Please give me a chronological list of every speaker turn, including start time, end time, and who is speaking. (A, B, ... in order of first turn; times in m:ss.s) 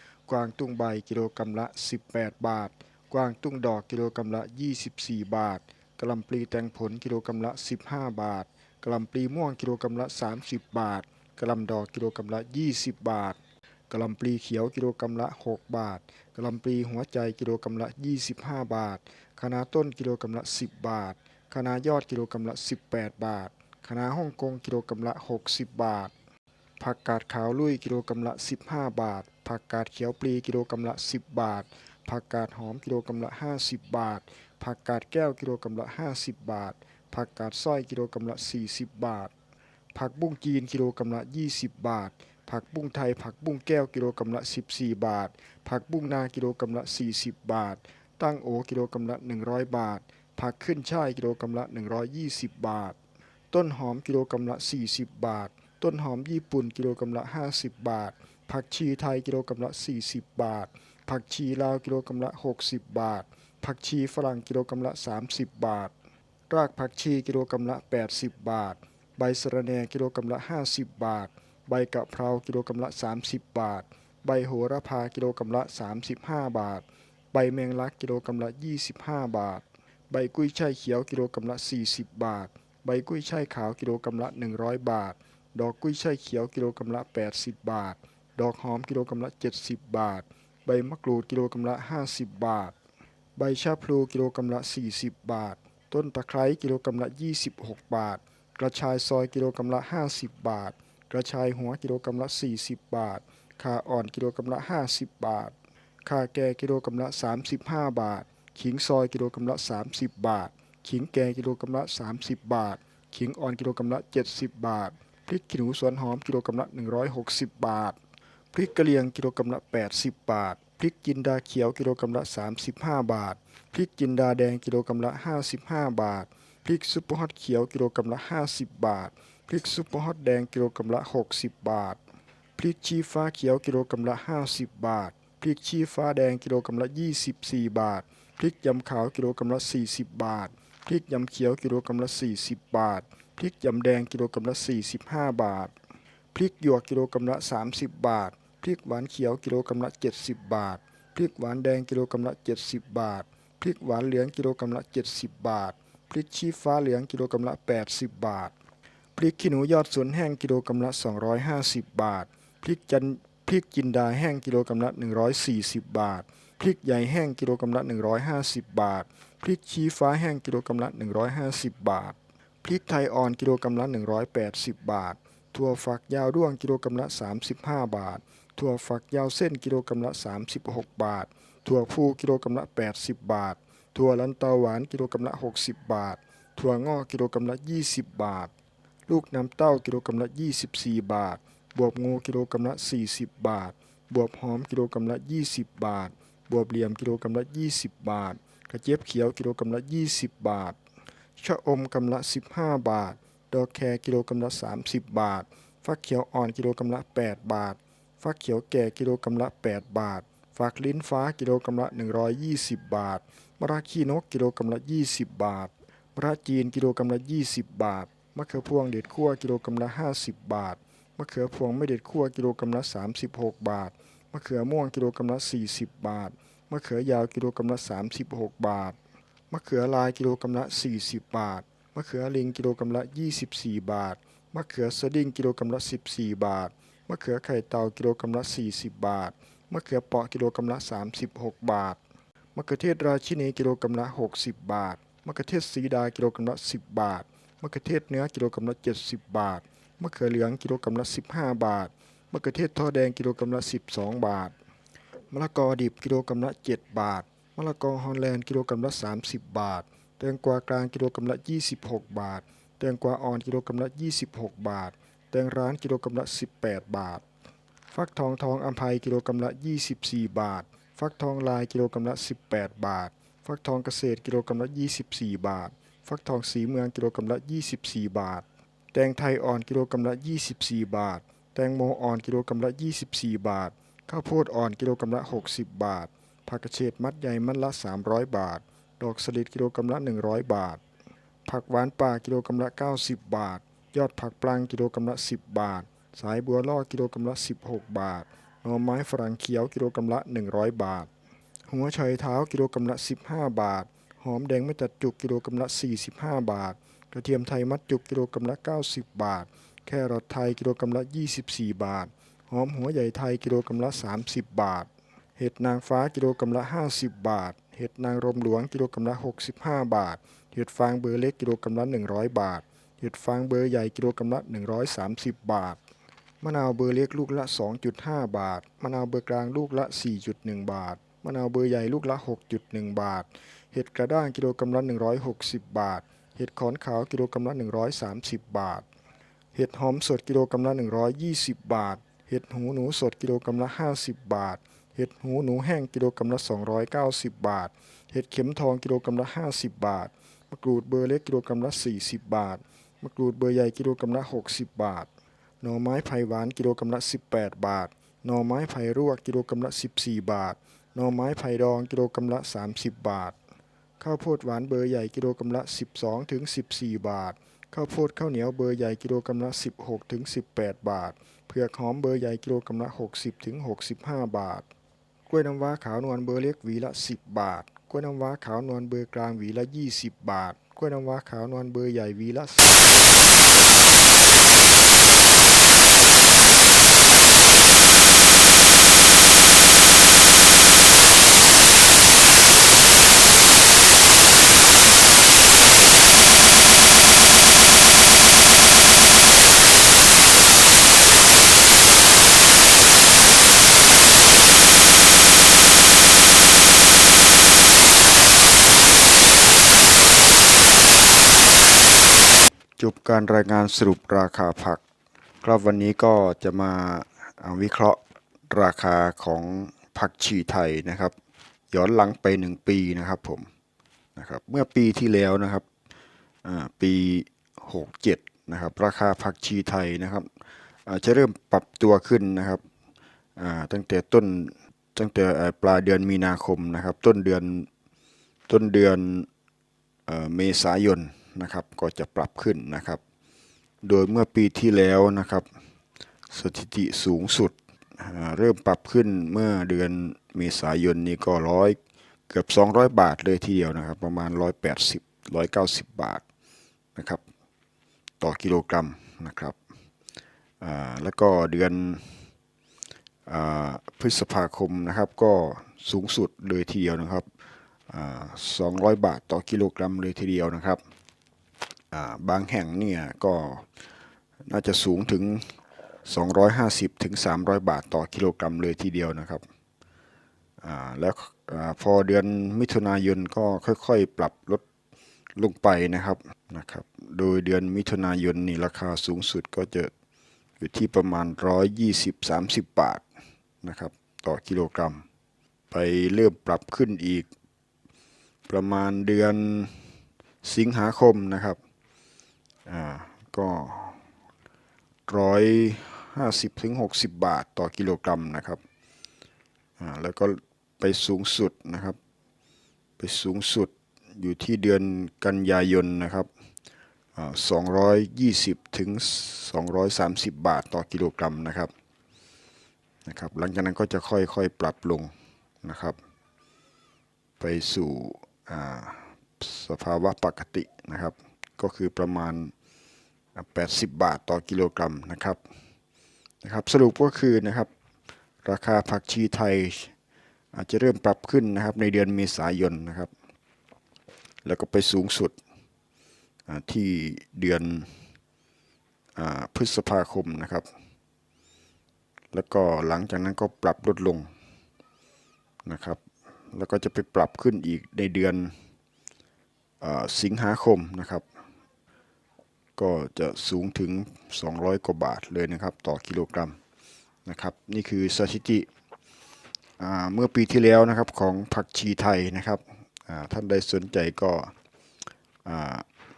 0:00.3-0:26.1 A
0:26.8-0:39.3 A
0:39.9-0:53.0 A
0:53.5-1:05.9 A
1:06.5-1:32.7 A
1:33.4-1:58.0 A
1:58.5-2:12.0 A
2:12.6-2:25.7 A
2:26.3-2:38.5 A
2:39.1-3:08.5 A
3:09.1-3:20.8 A
3:21.4-3:49.0 A
3:49.5-4:02.0 A
4:02.5-4:14.5 A
4:15.3-4:27.2 A
4:27.9-4:50.8 A
4:51.4-5:01.1 A
5:01.7-5:25.8 A
5:26.4-5:38.8 A
5:39.5-5:55.1 A
5:55.6-6:03.4 A
6:04.0-6:14.6 A
6:15.3-6:23.1 A
6:52.8-6:54.8 A
6:55.4-7:01.1 A
7:01.7-7:03.5 A
7:04.2-7:05.6 A
7:06.4-7:10.3 A
7:10.8-7:12.6 A
7:13.4-7:17.7 A
7:18.5-7:19.3 A
7:20.1-7:23.0 A
7:23.8-7:25.5 A
7:26.3-7:31.8 A
7:32.3-7:36.2 A
7:37.0-7:37.2 A
7:38.2-7:39.6 A
7:40.6-7:42.2 A
7:43.3-7:47.3 A
7:47.9-7:50.8 A
7:51.9-7:53.7 A
7:54.5-7:55.5 A
7:56.0-7:59.4 A
8:00.6-8:04.6 A
8:05.4-8:09.9 A
8:10.6-8:13.0 A
8:13.6-8:15.0 A
8:15.7-8:17.3 A
8:18.5-8:19.8 A
8:20.4-8:21.6 A
8:22.7-8:24.0 A
8:25.1-8:28.6 A
8:29.8-8:32.0 A
8:33.0-8:36.3 A
8:37.1-8:41.7 A
8:43.0-8:45.1 A
8:45.6-8:46.0 A
8:47.4-8:52.5 A
8:53.3-8:55.4 A
8:56.4-8:57.7 A
8:58.4-8:59.9 A
9:00.5-9:03.1 A
9:04.4-9:05.4 A
9:06.5-9:07.9 A
9:09.2-9:10.7 A
9:12.3-9:14.3 A
9:15.6-9:16.0 A
9:16.5-9:18.5 A
9:19.8-9:21.2 A
9:22.8-9:26.6 A
9:27.2-9:28.7 A
9:29.8-9:34.5 A
9:35.4-9:35.8 A